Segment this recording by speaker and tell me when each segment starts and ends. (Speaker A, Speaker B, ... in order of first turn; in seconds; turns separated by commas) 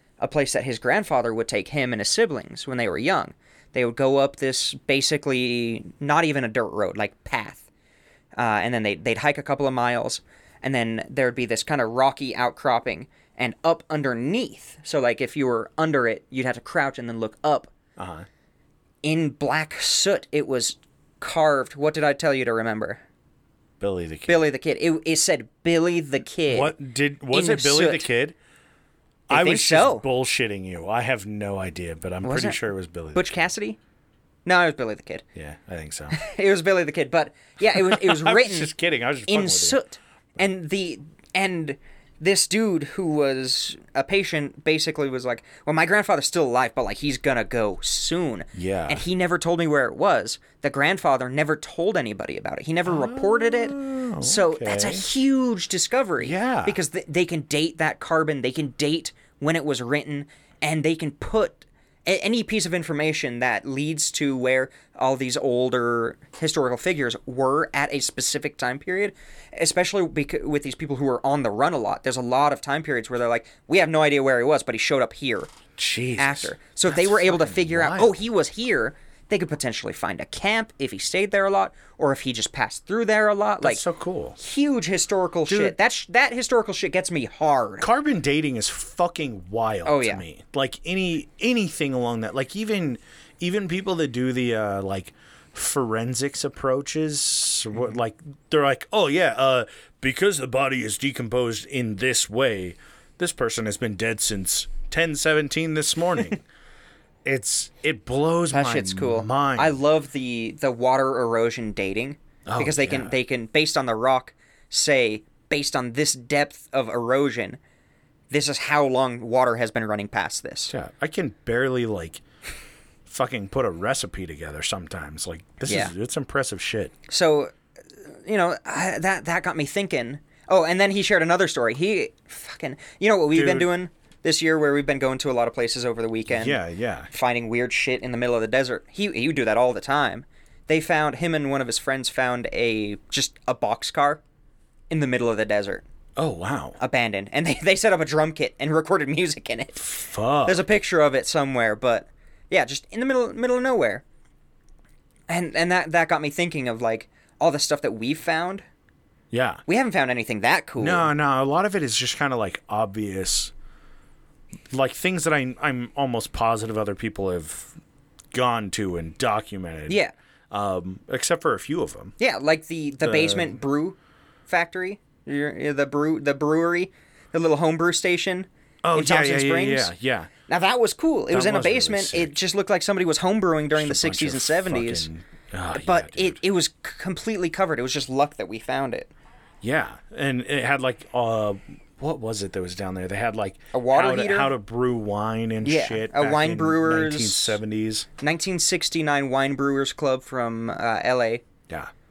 Speaker A: 0.2-7.7, Speaker A: 8.4-17.7, Speaker B: 18.0-18.3, Speaker A: 19.0-23.0, Speaker B: 23.8-24.5, Speaker A: 24.3-26.8, Speaker B: 26.5-28.4, Speaker A: 27.3-28.1, Speaker A: 29.3-30.1, Speaker B: 29.3-33.5, Speaker A: 32.2-32.6, Speaker A: 33.1-33.8, Speaker A: 34.5-35.2, Speaker B: 35.4-36.2, Speaker A: 36.1-38.7, Speaker B: 37.7-39.8, Speaker A: 39.3-75.5, Speaker B: 48.5-49.0, Speaker B: 52.9-55.1, Speaker B: 56.2-56.8, Speaker B: 75.8-78.2, Speaker A: 76.2-83.8, Speaker B: 83.6-84.4, Speaker A: 84.4-87.9, Speaker B: 85.5-85.8, Speaker B: 87.8-106.4, Speaker A: 89.8-90.2, Speaker B: 107.2-109.8, Speaker A: 108.5-117.6, Speaker B: 112.5-113.1, Speaker A: 118.3-120.7, Speaker B: 120.7-122.2, Speaker B: 123.1-126.9, Speaker A: 125.7-125.9, Speaker A: 127.1-127.5, Speaker A: 128.1-136.6, Speaker B: 133.3-133.7, Speaker B: 136.3-137.1, Speaker A: 137.1-144.2, Speaker A: 144.9-145.8, Speaker B: 146.2-146.8, Speaker A: 146.8-149.9, Speaker B: 149.8-150.7, Speaker A: 150.4-154.0, Speaker A: 155.3-158.7, Speaker B: 159.3-159.6, Speaker A: 159.7-161.1, Speaker B: 160.8-163.5, Speaker B: 164.7-167.8, Speaker B: 168.3-172.2, Speaker A: 172.2-174.0, Speaker B: 173.0-173.6, Speaker A: 174.5-179.9, Speaker B: 178.8-180.3, Speaker A: 180.5-185.1, Speaker B: 181.3-182.3, Speaker B: 183.8-186.4, Speaker A: 185.7-189.1, Speaker B: 189.6-198.1, Speaker A: 193.7-194.5, Speaker A: 195.6-197.6, Speaker A: 198.2-201.4